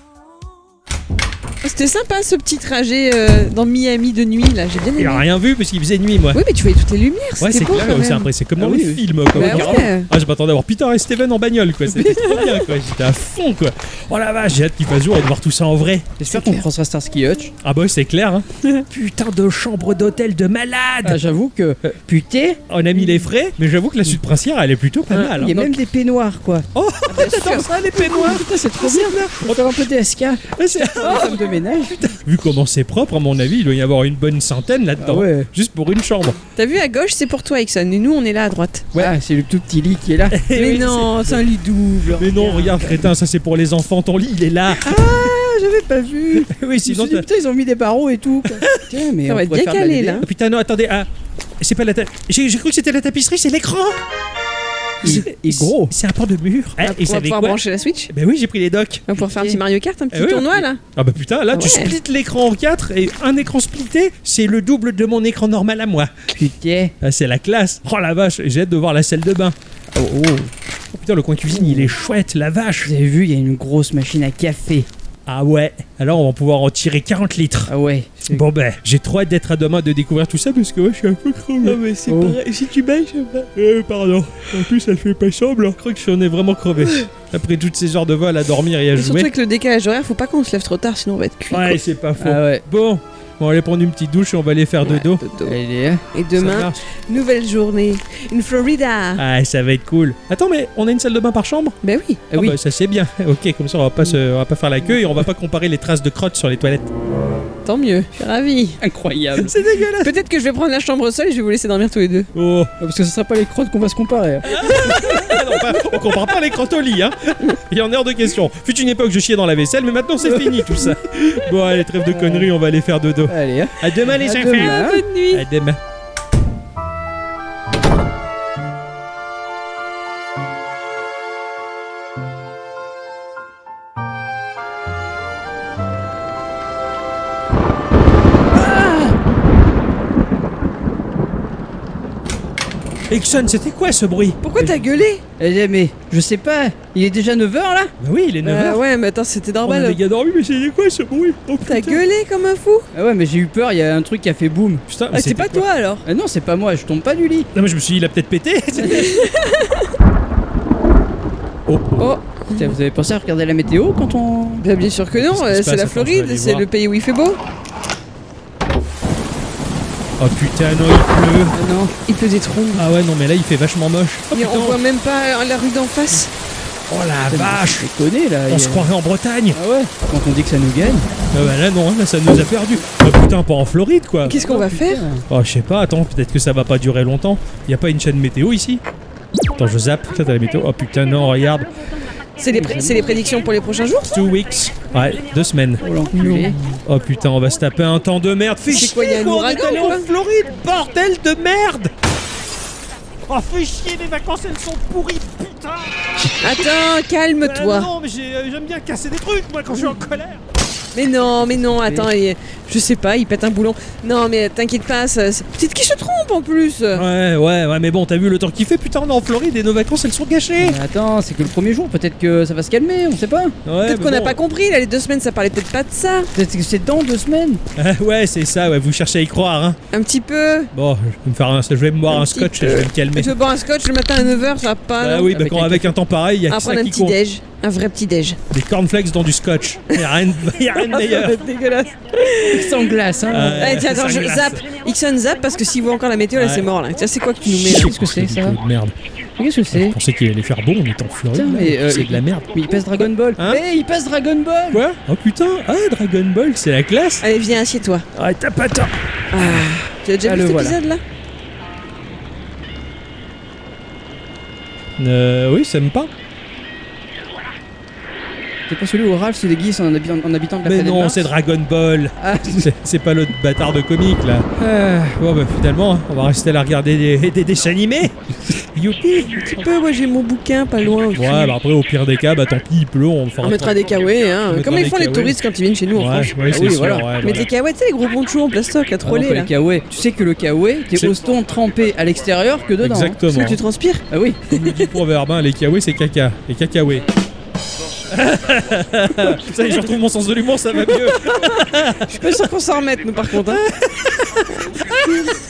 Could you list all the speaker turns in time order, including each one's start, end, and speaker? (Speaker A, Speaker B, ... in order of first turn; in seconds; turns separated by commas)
Speaker A: 1.6-5.2, Speaker B: 5.0-6.4, Speaker A: 6.3-8.3, Speaker B: 7.4-16.2, Speaker C: 8.6-9.9, Speaker A: 9.4-10.1, Speaker A: 12.1-12.6, Speaker C: 16.2-17.5, Speaker B: 17.6-21.2, Speaker C: 21.0-23.2, Speaker B: 22.7-25.6, Speaker C: 25.2-26.7, Speaker B: 26.8-29.6, Speaker A: 27.1-27.7, Speaker C: 27.9-32.0, Speaker B: 30.5-36.4, Speaker A: 31.0-31.4, Speaker C: 35.0-35.5, Speaker A: 36.6-38.9, Speaker C: 39.0-40.8, Speaker B: 40.3-41.4, Speaker A: 40.6-42.4, Speaker C: 41.8-43.0, Speaker B: 42.2-45.0, Speaker C: 45.0-50.2, Speaker B: 46.5-47.2, Speaker B: 48.5-48.8, Speaker A: 49.3-50.2, Speaker B: 50.2-51.1, Speaker B: 51.6-54.0, Speaker C: 55.0-55.9, Speaker B: 55.0-59.0, Speaker A: 56.8-58.1, Speaker A: 59.1-60.8, Speaker C: 59.2-59.6, Speaker B: 60.1-66.1, Speaker A: 61.5-61.9, Speaker C: 66.3-66.9, Speaker B: 67.0-69.6, Speaker C: 69.9-70.5, Speaker B: 70.9-72.9, Speaker C: 71.5-71.9, Speaker C: 72.8-74.9, Speaker B: 75.3-77.7, Speaker C: 77.7-78.4, Speaker B: 78.3-81.8, Speaker A: 81.6-83.5, Speaker C: 82.1-82.4, Speaker B: 83.5-89.3, Speaker A: 89.0-91.8, Speaker B: 91.5-95.2, Speaker C: 92.2-92.6, Speaker A: 94.8-95.6, Speaker C: 95.4-96.0, Speaker A: 96.1-99.2, Speaker B: 96.3-96.8, Speaker B: 99.2-101.8, Speaker A: 101.8-102.2, Speaker C: 102.3-102.6, Speaker B: 102.3-106.9, Speaker A: 107.7-108.8, Speaker C: 108.8-109.5, Speaker B: 109.4-110.1, Speaker A: 110.0-112.3, Speaker B: 112.3-112.7, Speaker C: 112.8-115.1, Speaker B: 114.5-125.8, Speaker A: 114.6-115.5, Speaker C: 122.1-122.5, Speaker C: 123.3-125.0, Speaker A: 124.5-125.4, Speaker C: 138.6-139.1, Speaker B: 143.1-144.4, Speaker A: 144.4-145.2, Speaker C: 145.4-147.9, Speaker B: 148.0-148.8, Speaker A: 148.4-150.0, Speaker B: 149.7-152.0, Speaker A: 151.7-152.9, Speaker C: 152.9-154.8, Speaker B: 154.9-155.7, Speaker A: 155.1-156.1, Speaker C: 156.1-157.5, Speaker B: 157.5-159.2, Speaker A: 158.9-159.8, Speaker B: 161.7-162.1, Speaker A: 162.0-162.7, Speaker C: 162.5-164.6, Speaker A: 164.6-167.4, Speaker B: 165.2-166.7, Speaker B: 170.2-171.6, Speaker C: 171.5-171.9, Speaker A: 172.1-172.9, Speaker B: 172.8-174.8, Speaker A: 174.3-176.3, Speaker B: 176.9-177.9, Speaker C: 177.3-178.9, Speaker B: 178.5-179.6, Speaker C: 179.5-181.1, Speaker B: 181.3-184.4, Speaker A: 184.2-185.1, Speaker C: 184.3-185.2, Speaker B: 185.3-188.8, Speaker B: 189.6-191.7, Speaker A: 192.4-194.2, Speaker C: 192.5-193.1, Speaker B: 194.1-201.9, Speaker C: 195.8-196.6, Speaker A: 198.7-200.1, Speaker B: 203.3-206.7, Speaker A: 206.4-207.9, Speaker B: 207.4-210.4, Speaker A: 210.9-217.0, Speaker C: 211.4-212.1, Speaker B: 216.9-220.8, Speaker C: 220.6-223.6, Speaker B: 223.7-224.4, Speaker A: 223.8-226.3, Speaker C: 226.3-227.6, Speaker B: 227.8-229.8, Speaker A: 229.9-230.7, Speaker B: 230.7-233.3, Speaker A: 232.1-235.8, Speaker B: 235.0-237.2, Speaker A: 236.5-238.4, Speaker B: 238.5-241.4, Speaker A: 240.8-242.9, Speaker C: 242.5-243.8, Speaker B: 243.3-244.7, Speaker A: 243.6-247.9, Speaker B: 246.3-246.7, Speaker B: 247.5-248.9, Speaker C: 247.6-248.6, Speaker C: 249.4-250.0, Speaker B: 249.7-253.6, Speaker C: 251.3-254.8, Speaker B: 254.7-257.2, Speaker A: 257.2-258.1, Speaker B: 258.1-259.0, Speaker A: 259.3-261.0, Speaker C: 260.2-260.8, Speaker B: 265.0-266.1, Speaker C: 268.7-271.3, Speaker B: 270.6-279.4, Speaker C: 272.2-272.7, Speaker A: 279.3-281.5, Speaker B: 281.1-283.9, Speaker A: 283.4-286.3, Speaker B: 284.5-285.4, Speaker B: 285.9-287.5, Speaker C: 286.5-287.1, Speaker A: 287.2-289.5, Speaker C: 289.0-293.2, Speaker B: 292.8-293.6, Speaker A: 293.3-294.9, Speaker C: 294.1-294.5, Speaker B: 294.5-297.1, Speaker B: 298.1-302.1, Speaker A: 301.3-303.6, Speaker B: 303.4-305.1